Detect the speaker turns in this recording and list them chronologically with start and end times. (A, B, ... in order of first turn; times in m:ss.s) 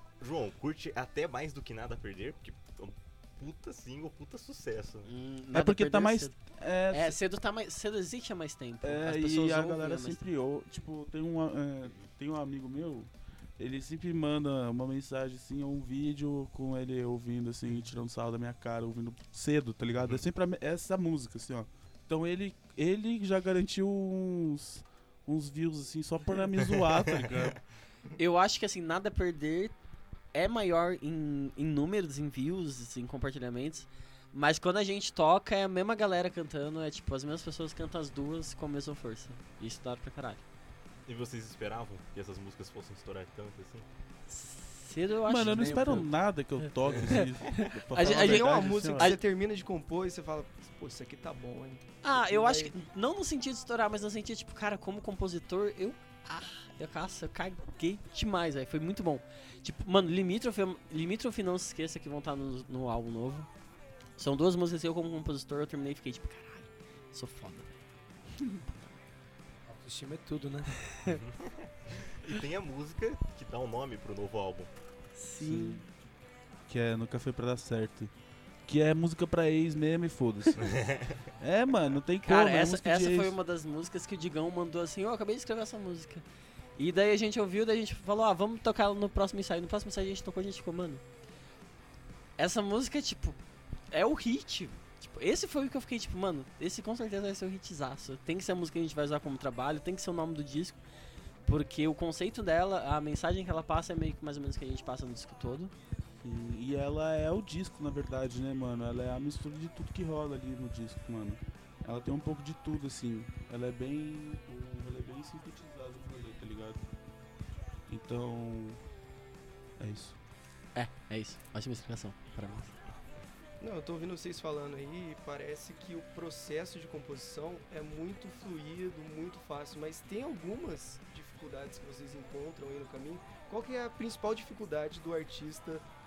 0:00.2-0:05.1 A
0:05.0-0:06.3 B
0:05.5-0:07.2 C
0:06.9-0:10.2 B
0:08.8-0:27.6 C
0:28.2-0:29.7 B
0:30.3-0:40.4 B
0:41.0-0:43.8 A
0:44.3-0:46.1 B
0:45.2-0:49.2 C
0:45.4-0:46.1 D
0:46.9-0:49.2 B
0:48.0-0:52.7 E
0:52.0-1:03.5 B
1:04.2-1:07.7 B
1:09.6-1:10.9 D
1:11.0-1:14.7 A
1:15.2-1:15.8 B
1:15.4-1:15.9 C
1:16.7-1:18.1 C
1:18.6-1:20.8 C
1:20.6-1:21.2 A
1:21.4-1:23.4 C
1:22.2-1:26.2 B
1:26.8-1:31.0 B
1:32.4-1:33.4 B
1:33.9-1:40.8 B
1:41.4-1:45.7 B
1:46.2-1:56.8 C
1:57.9-1:58.8 C
1:59.8-2:00.2 C
2:00.7-2:02.7 B
2:03.6-2:15.8 E